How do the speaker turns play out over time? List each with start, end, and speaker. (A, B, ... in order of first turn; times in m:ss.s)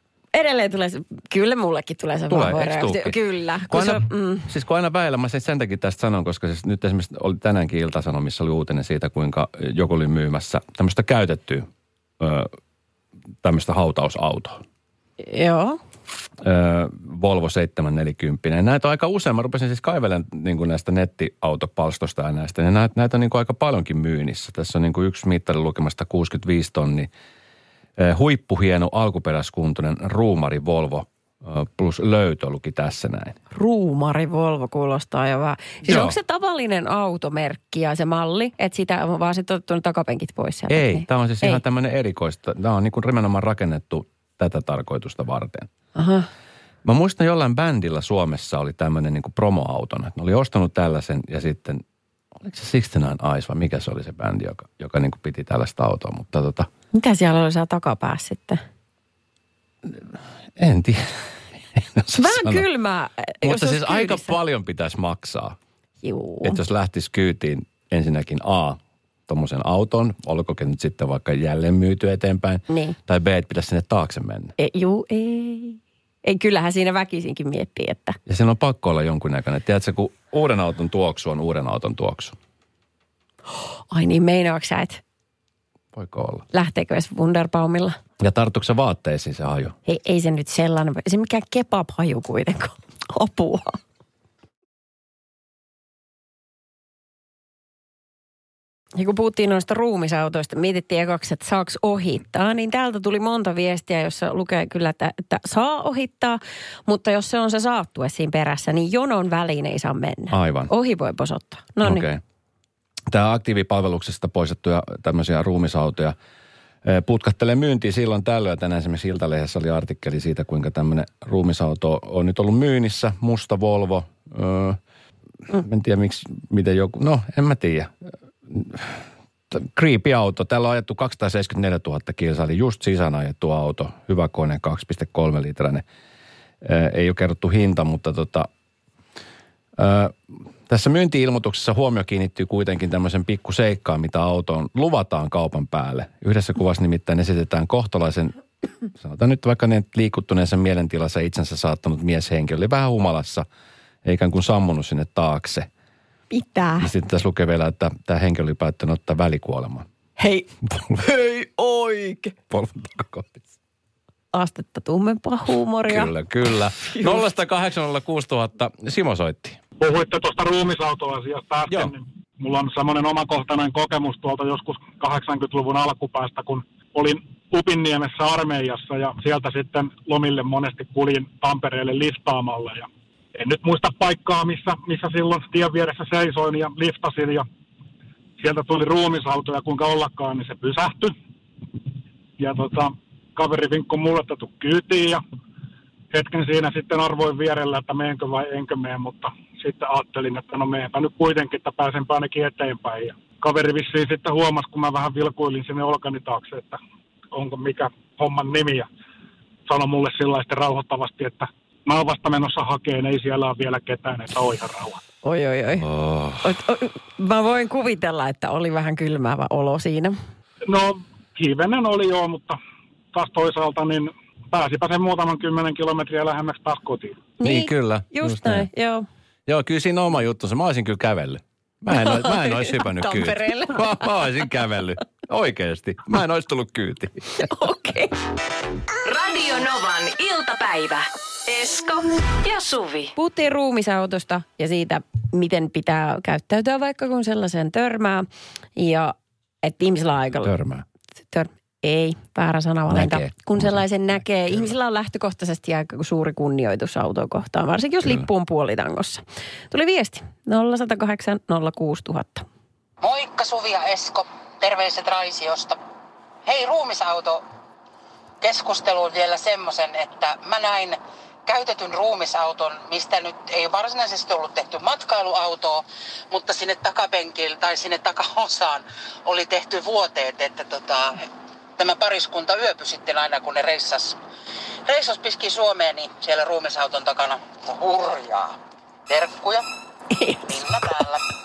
0:00.3-0:04.5 A
0:02.3-0:03.2 B
0:03.7-0:11.7 B
0:12.2-0:12.5 B
0:13.4-0:14.6 B
0:15.2-0:15.8 A
0:16.4-0:27.1 B
0:28.0-0:33.4 B
0:33.5-0:41.6 A
0:35.8-0:36.2 B
0:40.7-0:45.7 B
0:46.0-0:46.3 A
0:46.8-0:51.8 B
0:52.4-0:56.7 B
0:56.9-0:58.6 A
0:59.8-1:02.6 B
1:02.1-1:04.3 A
1:03.4-1:05.6 B
1:06.0-1:06.6 A
1:06.4-1:14.5 B
1:12.7-1:13.0 A
1:14.6-1:18.2 A
1:18.3-1:22.4 B
1:23.9-1:25.0 A
1:25.9-1:26.4 B
1:26.5-1:28.0 A
1:28.2-1:29.8 B
1:29.9-1:33.8 A
1:39.0-1:52.0 A
1:50.3-1:50.7 B
1:51.8-1:52.2 B
1:53.1-1:56.1 B
1:56.8-2:04.8 B
2:05.5-2:07.9 B
2:08.4-2:15.8 B
2:16.6-2:18.5 B
2:19.8-2:28.4 B
2:28.9-2:33.4 B
2:34.0-2:35.7 B
2:36.3-2:36.9 A
2:36.8-2:39.8 B
2:40.2-2:42.3 A
2:40.6-2:41.1 B
2:42.5-2:43.5 B
2:44.3-2:46.1 A
2:45.8-2:49.6 B
2:46.8-2:47.2 A
2:49.8-3:07.4 C
2:51.7-2:51.9 B
3:08.4-3:11.2 C
3:12.4-3:15.2 C
3:16.1-3:26.8 C
3:27.3-3:28.9 C
3:29.6-3:35.0 C
3:35.2-3:35.9 A
3:35.8-3:36.6 B
3:36.4-3:40.2 A
3:40.7-3:42.6 C
3:43.1-3:47.2 C
3:47.4-3:49.0 A
3:47.4-3:48.7 B
3:49.4-3:57.4 B
3:51.9-3:54.1 A
3:57.4-3:58.1 A
3:59.0-4:03.1 D
4:03.1-4:10.6 A
4:10.3-4:10.8 B
4:11.3-4:22.4 A
4:12.9-4:13.8 B
4:23.0-4:25.8 E
4:26.4-4:27.4 E
4:28.4-4:44.2 E
4:44.8-4:49.6 E
4:50.1-4:51.0 A
4:50.5-4:51.2 E